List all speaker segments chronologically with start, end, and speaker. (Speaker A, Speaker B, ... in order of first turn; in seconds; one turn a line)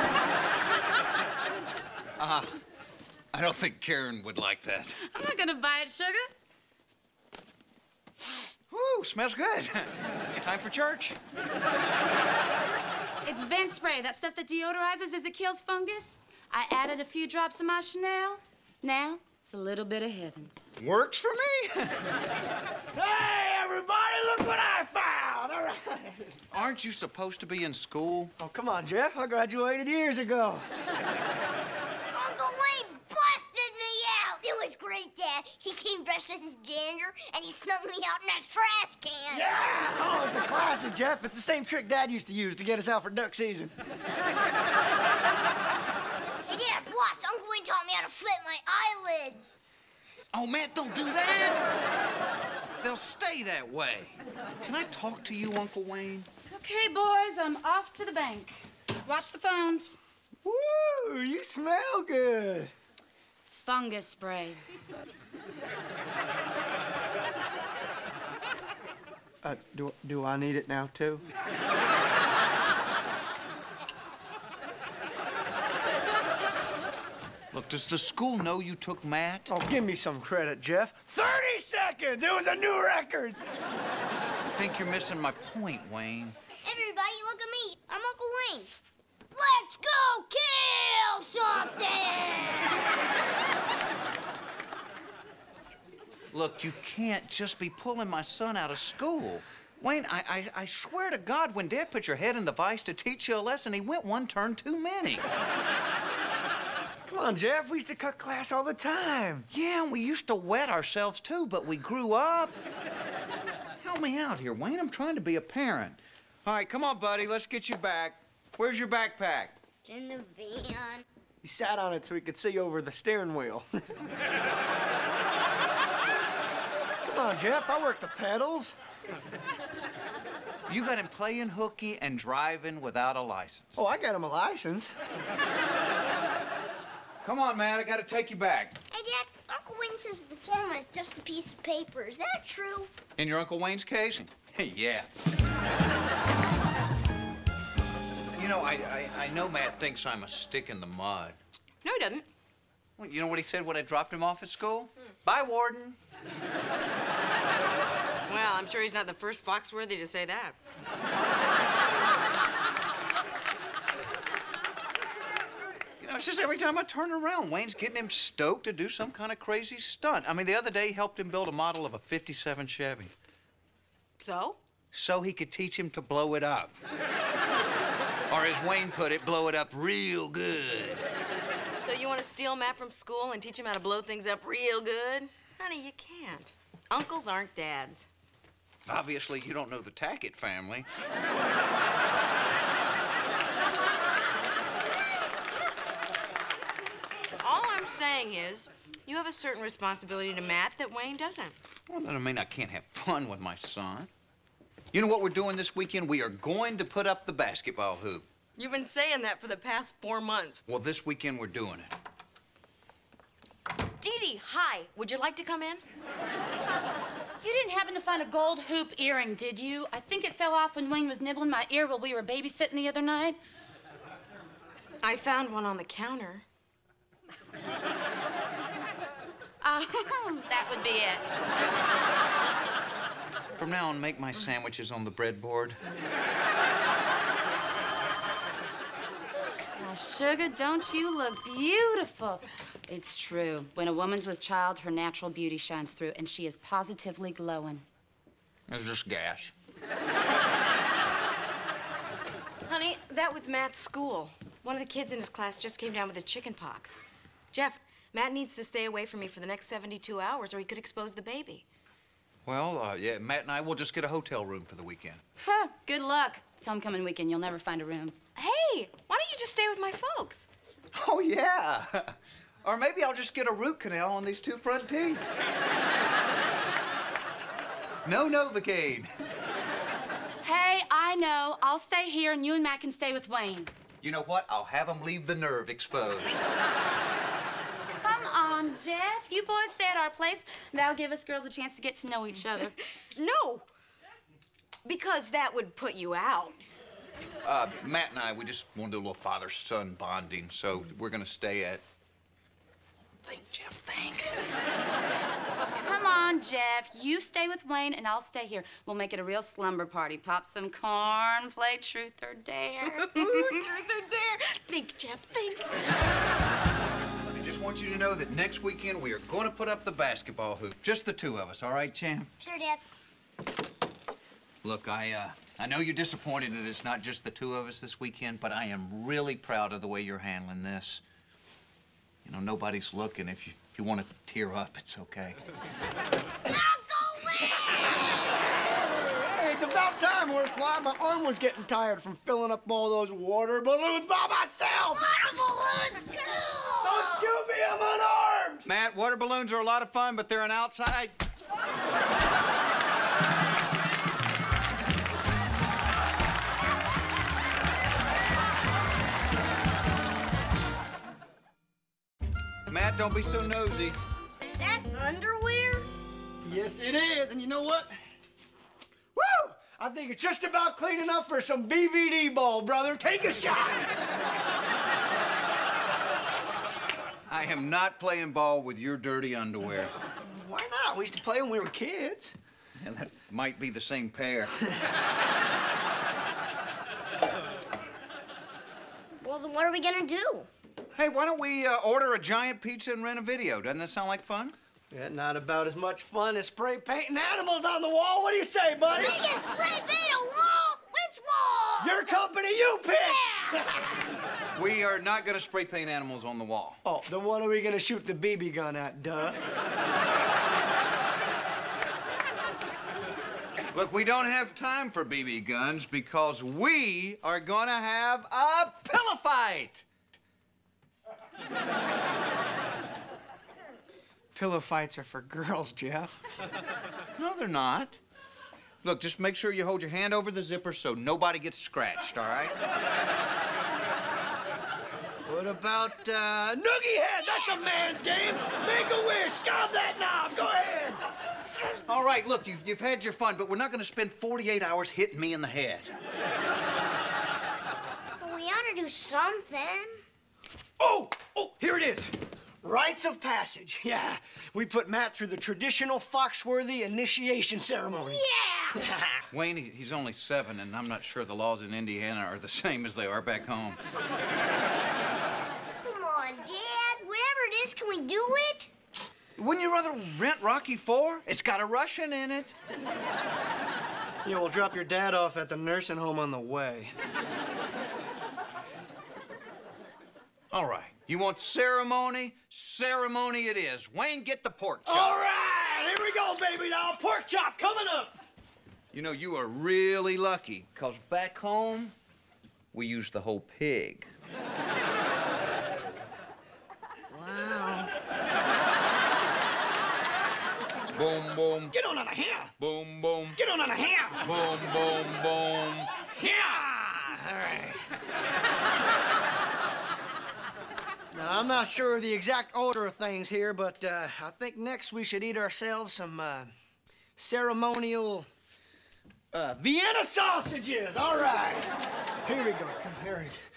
Speaker A: 2.2-2.6
Speaker A: 3.3-5.0
Speaker B: 5.0-6.3
Speaker A: 8.7-11.2
Speaker B: 13.2-20.5
Speaker A: 20.8-22.0
Speaker C: 22.9-26.4
Speaker A: 26.5-28.3
Speaker C: 28.4-30.6
Speaker D: 32.1-39.5
Speaker C: 39.3-43.7
Speaker D: 46.5-49.6
Speaker A: 50.3-51.7
Speaker A: 52.8-56.3
Speaker B: 56.5-60.0
Speaker C: 60.4-62.7
Speaker B: 63.5-64.6
Speaker C: 69.4-71.2
Speaker A: 77.5-79.5
Speaker C: 79.5-83.4
Speaker A: 84.5-86.3
Speaker D: 86.6-88.7
Speaker D: 89.3-92.9
Speaker A: 96.3-105.2
Speaker C: 107.1-109.5
Speaker A: 109.5-112.6
Speaker A: 113.8-119.6
Speaker D: 119.8-121.0
Speaker C: 121.4-123.9
Speaker C: 127.0-128.8
Speaker A: 130.7-133.7
Speaker C: 133.8-134.9
Speaker A: 137.2-138.8
Speaker D: 138.9-142.9
Speaker A: 143.2-145.1
Speaker A: 148.3-151.4
Speaker E: 151.8-152.3
Speaker A: 153.0-156.0
Speaker E: 158.3-160.6
Speaker A: 166.0-173.1
Speaker E: 174.2-174.6
Speaker A: 174.9-176.8
Speaker A: 178.3-181.0
Speaker E: 181.8-188.1
Speaker A: 188.9-190.9
Speaker E: 197.4-201.5
Speaker A: 201.9-204.1
Speaker A: 204.9-208.2
Speaker E: 208.6-210.6
Speaker A: 210.7-211.9
Speaker E: 214.0-215.8
Speaker B: 217.4-223.4
Speaker E: 225.0-226.4
Speaker B: 229.6-231.3
Speaker A: 233.6-235.8
Speaker B: 239.7-247.8
Speaker A: 248.7-249.5
Speaker E: 252.7-257.0
Speaker E: 257.5-261.7
Speaker A: 262.5-265.2
Speaker B: 265.4-268.2
Speaker E: 268.4-270.5
Speaker A: 270.9-275.2
Speaker A: 278.1-279.1
Speaker B: 280.4-283.7
Speaker A: 284.0-286.4
Speaker B: 288.0-292.8
Speaker E: 293.1-293.7
Speaker E: 294.9-296.6
Speaker A: 297.4-301.8
Speaker A: 303.2-304.3
Speaker B: 305.8-313.6
Speaker E: 313.0-316.0
Speaker A: 317.3-322.3
Speaker D: 322.4-322.8
Speaker A: 324.6-331.0
Speaker A: 332.2-335.4
Speaker D: 336.5-338.2
Speaker C: 339.0-345.1
Speaker D: 344.9-347.3
Speaker C: 346.8-348.7
Speaker A: 348.7-351.1
Speaker A: 362.7-364.0
Speaker D: 364.4-365.9
Speaker C: 366.4-367.9
Speaker C: 369.1-373.9
Speaker A: 377.3-379.9
Speaker C: 380.2-382.4
Speaker A: 382.8-384.5
Speaker D: 389.2-390.5
Speaker A: 390.9-394.5
Speaker C: 394.9-399.3
Speaker D: 398.9-402.2
Speaker C: 401.8-403.8
Speaker D: 402.9-403.8
Speaker A: 404.6-406.8
Speaker C: 406.8-409.4
Speaker A: 413.7-419.8
Speaker C: 424.4-426.1
Speaker A: 427.2-428.0
Speaker A: 428.8-432.6
Speaker C: 435.3-441.0
Speaker A: 441.9-445.9
Speaker D: 448.2-450.0
Speaker C: 450.8-458.2
Speaker D: 457.9-458.8
Speaker C: 458.8-459.2
Speaker A: 459.3-463.8
Speaker D: 465.8-468.7
Speaker A: 469.4-472.5
Speaker C: 474.2-476.9
Speaker A: 480.5-485.2
Speaker C: 484.9-488.2
Speaker A: 488.9-491.9
Speaker A: 492.7-494.1
Speaker D: 497.1-497.9
Speaker A: 500.9-501.7
Speaker C: 501.7-502.5
Speaker A: 502.6-503.4
Speaker C: 503.4-504.3
Speaker A: 504.2-505.9
Speaker C: 506.1-507.8
Speaker C: 511.1-516.5
Speaker C: 517.2-518.3
Speaker C: 519.3-521.7
Speaker C: 522.2-523.4